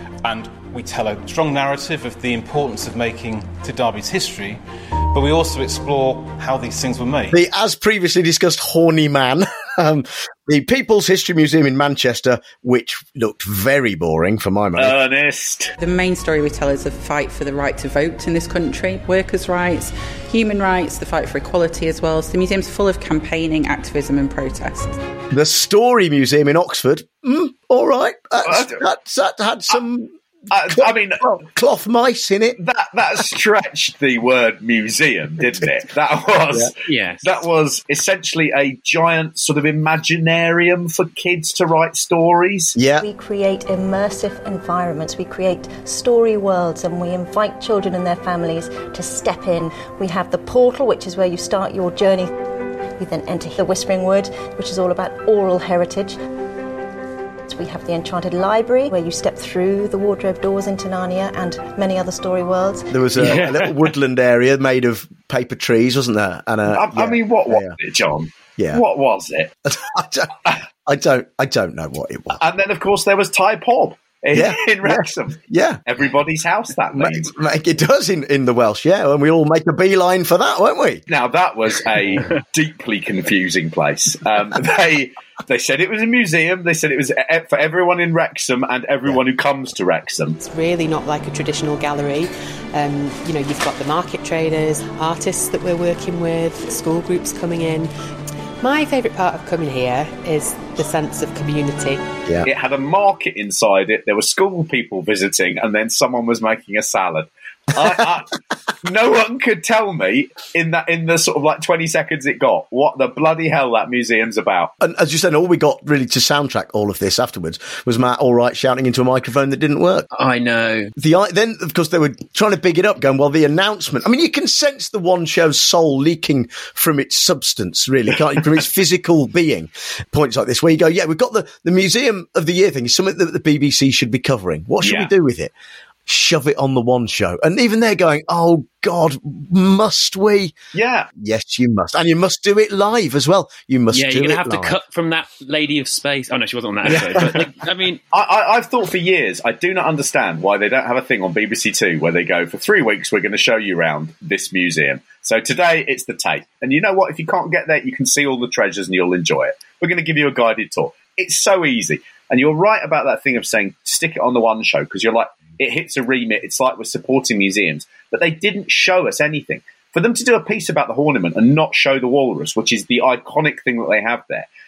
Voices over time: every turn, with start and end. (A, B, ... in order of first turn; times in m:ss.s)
0:00.2-0:07.4 A
0:07.3-0:15.0 B
0:14.8-0:15.7 C
0:15.8-0:25.0 D
0:25.3-0:30.1 B
0:28.4-0:28.8 C
0:30.5-0:31.3 C
0:30.7-0:32.6 B
0:32.6-0:42.8 C
0:36.9-0:37.2 E
0:42.8-0:43.1 B
0:43.0-0:52.3 F
0:53.0-0:56.2 F
0:57.5-1:02.9 F
1:02.9-1:07.8 B
1:03.2-1:03.8 E
1:06.7-1:09.5 C
1:08.6-1:08.8 B
1:09.7-1:12.4 B
1:12.4-1:17.3 C
1:14.3-1:15.8 B
1:16.9-1:21.0 B
1:21.1-1:30.4 C
1:30.4-1:37.9 G
1:38.6-1:42.0 G
1:42.4-1:54.7 C
1:54.8-2:00.1 B
2:00.1-2:00.9 E
2:01.0-2:15.5 B
2:14.8-2:15.1 C
2:16.1-2:20.6 B
2:20.7-2:21.1 C
2:21.2-2:24.8 B
2:23.9-2:28.0 E
2:26.9-2:27.3 C
2:28.1-2:54.5 C